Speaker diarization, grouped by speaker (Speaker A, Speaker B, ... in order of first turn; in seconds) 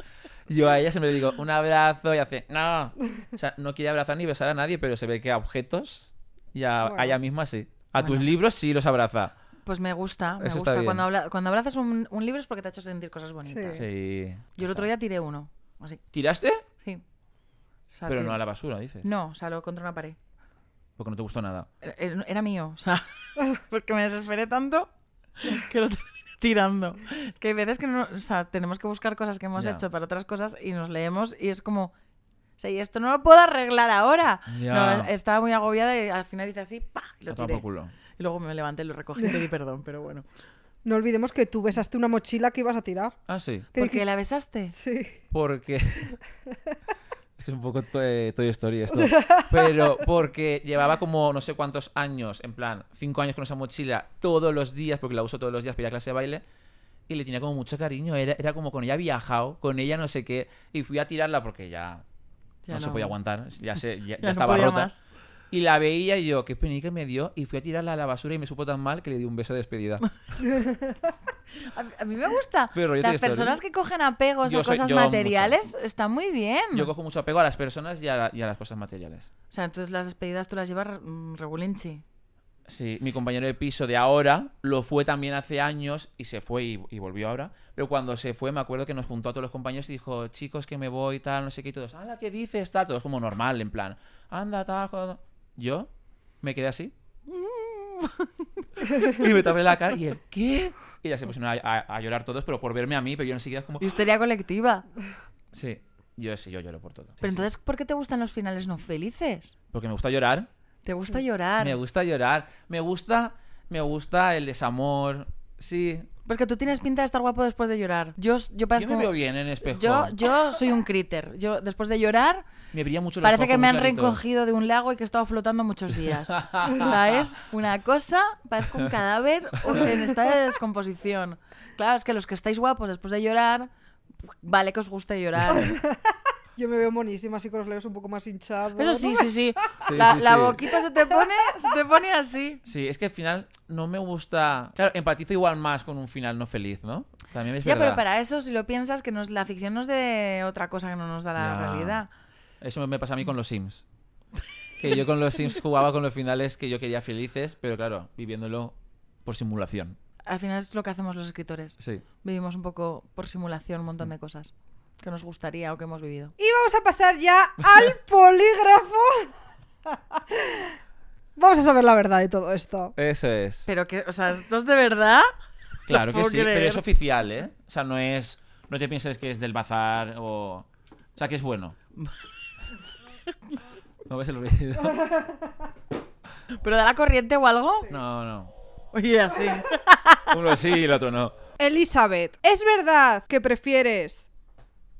Speaker A: 0.5-9.3, 10.4-11.0, 13.8-14.9, 16.1-16.6, 18.1-19.1, 21.0-21.7, 29.6-29.9, 34.5-35.1, 37.3-38.0, 43.3-43.7, 45.3-46.2, 47.4-56.4, 57.1-62.0, 62.7-64.9, 65.5-70.0, 72.7-73.6, 74.4-75.6, 76.7-79.3, 82.7-96.9, 99.0-103.9, 105.5-107.5, 109.7-110.5, 111.6-116.1, 118.8-120.3, 122.7-124.2, 126.1-127.4, 129.6-129.9, 139.8-140.7, 142.7-148.0, 151.4-152.0, 152.6-153.8, 154.8-160.0, 173.0-173.7, 175.9-181.8, 184.1-185.1, 187.9-188.5, 190.3-191.4
Speaker B: 6.9-7.1, 13.5-13.8, 40.9-43.2, 43.8-44.1, 44.7-45.2, 49.0-49.6, 70.5-71.0, 135.5-136.0, 136.6-139.3, 166.4-169.3, 169.9-170.8, 171.4-172.9, 191.6-194.3
Speaker C: 8.0-8.3, 9.7-13.9, 14.6-16.0, 17.9-18.4, 19.0-20.2, 21.8-31.9, 32.6-37.6, 38.1-40.2, 43.8-44.7, 62.6-63.1, 64.2-65.0, 71.6-76.9, 79.5-82.0, 97.3-99.1, 103.8-104.9, 107.2-109.6, 110.8-111.8, 116.2-122.5, 123.2-133.7, 134.3-135.8, 138.8-142.6, 147.6-152.1, 160.3-166.3, 173.7-175.3, 175.9-176.8, 183.3-183.6, 186.6-187.9, 188.9-190.6